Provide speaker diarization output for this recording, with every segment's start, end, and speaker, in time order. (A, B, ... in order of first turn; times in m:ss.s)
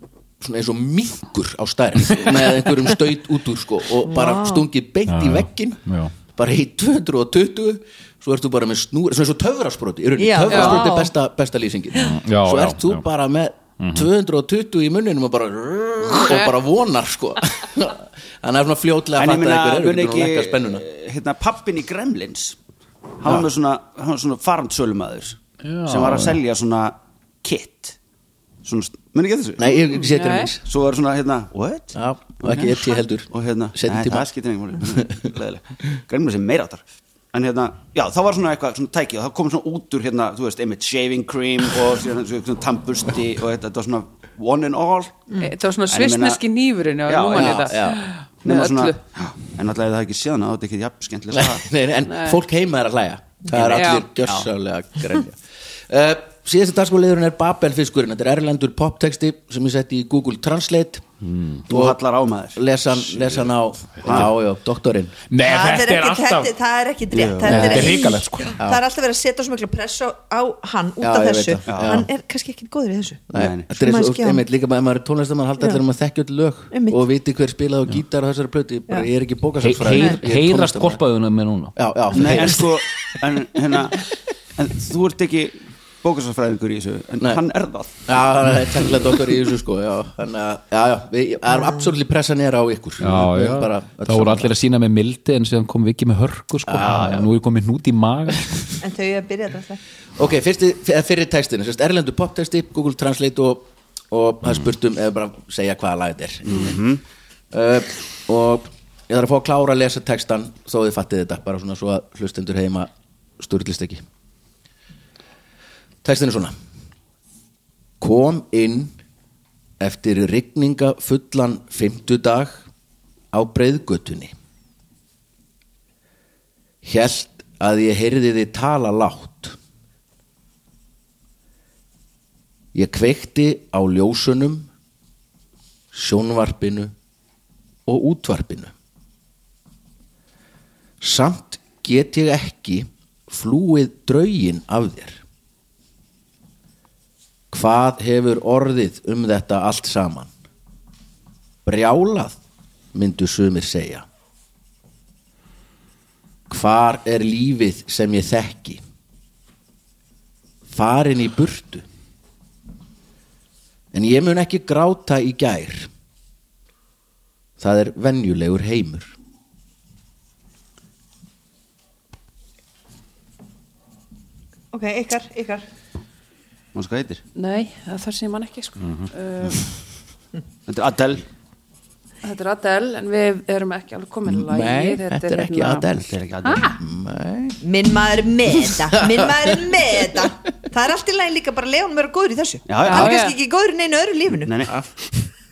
0:00.4-0:20.8 A
0:04.0-0:04.6 B
0:05.1-0:06.1 C
0:10.2-0:11.1 B
0:10.5-0:10.9 D
0:12.0-0:13.0 C
0:13.8-0:14.1 C
0:16.1-0:16.5 D
0:19.2-0:22.6 E
0:23.2-0:28.0 E
0:25.6-0:26.4 C
0:28.6-0:29.7 E
0:29.6-0:30.6 A
0:29.9-0:30.5 D
0:30.7-0:36.8 E
0:31.9-0:34.3 A
0:34.9-0:35.3 A
0:37.3-0:45.3 E
0:45.4-0:49.0 D
0:45.9-0:46.4 E
0:47.1-0:47.8 E
0:47.4-0:48.0 A
0:48.4-0:51.6 E
0:51.3-1:01.1 A
0:52.1-0:52.4 D
0:53.5-0:54.5 E
0:53.7-0:54.0 D
1:01.3-1:01.6 C
1:01.7-1:03.5 E
1:01.7-1:02.0 A
1:02.6-1:05.2 A
1:04.0-1:04.3 E
1:05.3-1:06.5 C
1:05.4-1:14.4 B
1:07.1-1:07.6 E
1:07.4-1:08.6 C
1:07.5-1:08.0 A
1:11.0-1:12.1 A
1:11.7-1:12.0 E
1:13.3-1:21.0 A
1:13.3-1:13.7 E
1:16.7-1:17.0 B
1:19.6-1:21.7 C
1:21.8-1:22.8 A
1:22.1-1:28.1 E
1:28.1-1:34.5 A
1:31.5-1:31.9 B
1:33.0-1:38.8 C
1:36.6-1:37.1 A
1:36.8-1:37.3 E
1:38.8-1:39.8 B
1:40.2-1:46.7 A
1:46.5-1:47.0 E
1:47.5-1:54.0 A
1:56.0-1:56.6 A
1:58.0-1:59.0 A
1:59.8-2:02.7 A
2:03.3-2:04.3 A
2:06.8-2:09.6 A
2:12.7-2:14.7 A
2:15.9-2:16.9 A
2:17.9-2:18.7 A
2:21.0-2:25.2 A
2:27.5-2:30.3 A
2:31.6-2:32.4 A
2:32.9-2:34.1 A
2:36.5-2:38.8 A
2:40.7-2:41.8 A
2:43.9-2:45.9 A
2:47.6-2:49.1 A
2:54.7-2:55.6 B
2:56.7-2:57.2 E
2:57.4-2:59.7 D
2:58.8-2:59.1 C
3:00.7-3:01.2 E
3:02.2-3:05.9 D
3:04.3-3:06.2 A
3:06.0-3:06.7 E
3:06.4-3:06.8 D
3:06.8-3:07.6 A
3:07.6-3:14.7 B
3:08.7-3:09.8 A
3:12.7-3:13.2 E
3:12.8-3:13.4 D
3:14.4-3:14.8 E